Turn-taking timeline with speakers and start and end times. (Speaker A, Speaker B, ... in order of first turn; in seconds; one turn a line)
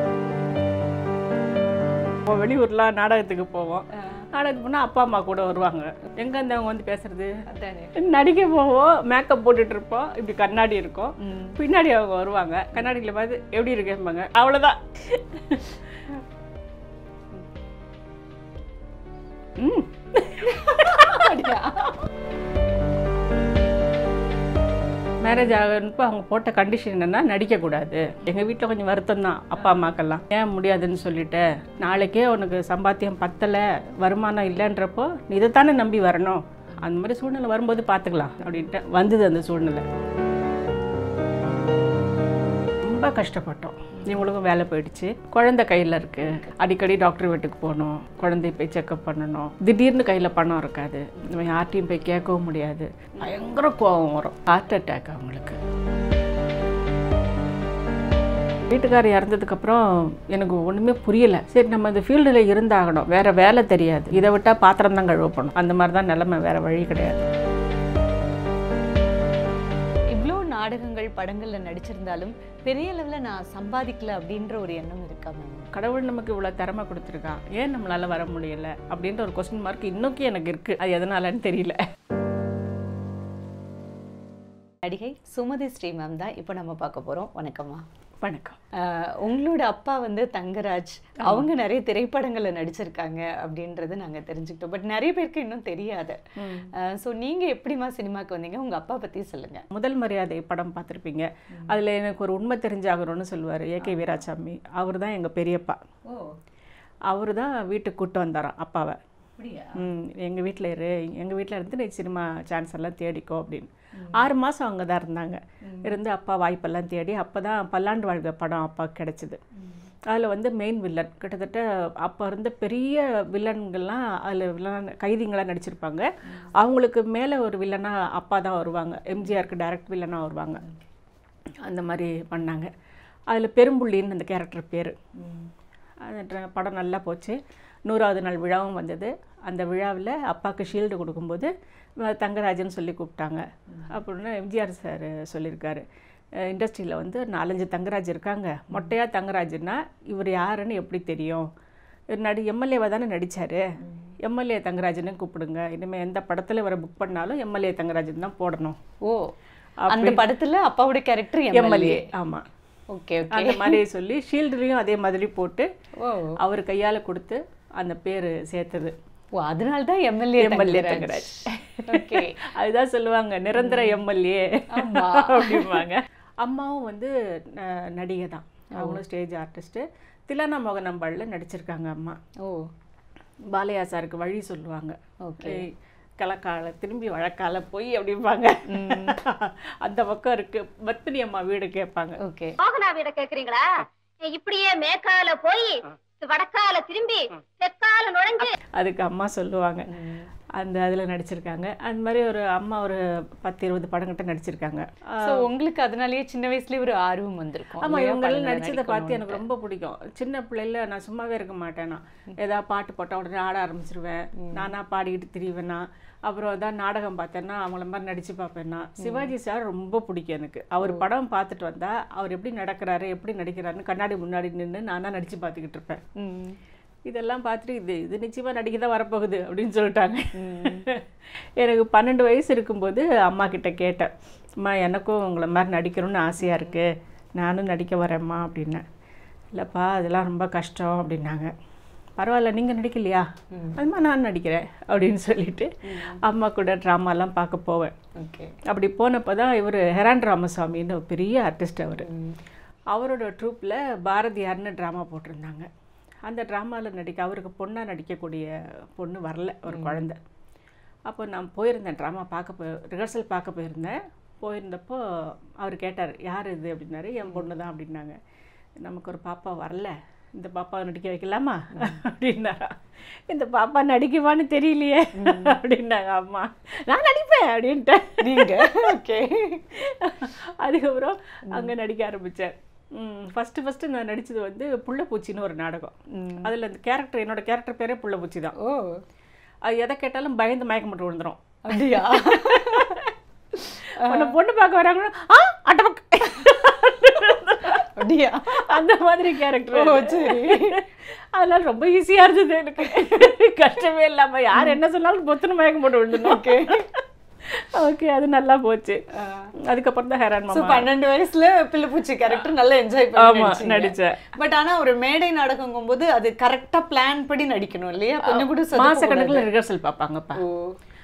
Speaker A: 2.2-7.4
Speaker B: 4.0-4.2
Speaker B: 7.5-7.9
Speaker A: 8.0-15.8
Speaker B: 11.2-11.6
Speaker A: 19.6-21.3
Speaker B: 20.4-22.0
Speaker A: 25.2-39.8
Speaker A: 42.8-55.6
Speaker B: 43.9-44.2
Speaker B: 46.2-46.6
Speaker A: 58.7-67.2
Speaker B: 70.1-75.7
Speaker A: 75.7-81.8
Speaker B: 84.8-87.8
Speaker A: 88.2-88.6
Speaker B: 88.8-96.2
Speaker A: 91.2-91.5
Speaker A: 96.4-96.7
Speaker B: 96.8-99.6
Speaker A: 99.7-105.8
Speaker B: 103.8-104.2
Speaker B: 106.1-106.3
Speaker A: 107.1-109.0
Speaker B: 109.4-109.8
Speaker A: 109.8-119.4
Speaker B: 114.0-114.3
Speaker B: 115.6-115.9
Speaker B: 119.5-119.9
Speaker A: 120.1-130.6
Speaker A: 131.7-132.7
Speaker A: 133.3-134.9
Speaker B: 135.2-135.5
Speaker A: 136.0-145.8
Speaker A: 146.4-151.5
Speaker A: 152.1-153.6
Speaker B: 153.8-154.1
Speaker A: 154.2-158.8
Speaker B: 159.0-159.3
Speaker A: 159.8-160.2
Speaker B: 159.9-162.0
Speaker A: 161.5-162.4
Speaker B: 162.9-163.8
Speaker A: 163.3-165.7
Speaker B: 166.0-166.4
Speaker A: 166.4-168.9
Speaker B: 169.3-172.4
Speaker A: 170.4-182.2
Speaker B: 173.5-174.0
Speaker B: 174.7-175.8
Speaker A: 183.5-192.2
Speaker B: 185.2-185.6
Speaker B: 188.7-189.2
Speaker B: 192.2-192.6
Speaker C: 192.6-193.6
Speaker C: 194.2-198.5
Speaker A: 198.8-199.8
Speaker B: 199.9-200.3
Speaker A: 200.6-205.4
Speaker B: 205.2-209.4
Speaker A: 207.8-226.0
Speaker B: 214.4-214.6
Speaker B: 219.0-219.3
Speaker B: 226.2-226.6
Speaker A: 227.1-231.1
Speaker B: 230.3-230.9
Speaker A: 231.6-238.8
Speaker B: 236.4-236.8
Speaker A: 239.5-241.5
Speaker A: 242.2-247.9
Speaker B: 243.5-243.8
Speaker B: 245.8-246.2
Speaker B: 248.2-248.5
Speaker A: 248.7-252.1
Speaker B: 252.0-252.3
Speaker A: 252.9-255.7
Speaker A: 256.2-260.2
Speaker B: 259.7-260.0
Speaker A: 261.1-268.2
Speaker A: 268.8-279.0
Speaker B: 271.7-272.0
Speaker B: 275.2-275.6
Speaker B: 278.2-279.7
Speaker A: 279.7-288.5
Speaker B: 286.1-286.5
Speaker B: 288.6-289.0
Speaker A: 289.7-293.1
Speaker B: 291.7-293.0
Speaker B: 293.6-294.3
Speaker A: 294.0-309.0
Speaker B: 296.3-296.6
Speaker B: 297.6-298.6
Speaker B: 299.7-300.8
Speaker B: 302.8-303.2
Speaker B: 306.1-306.9
Speaker B: 309.1-309.5
Speaker A: 309.6-310.9
Speaker B: 310.5-319.5
Speaker A: 313.2-314.2
Speaker A: 318.2-320.4
Speaker B: 320.4-320.8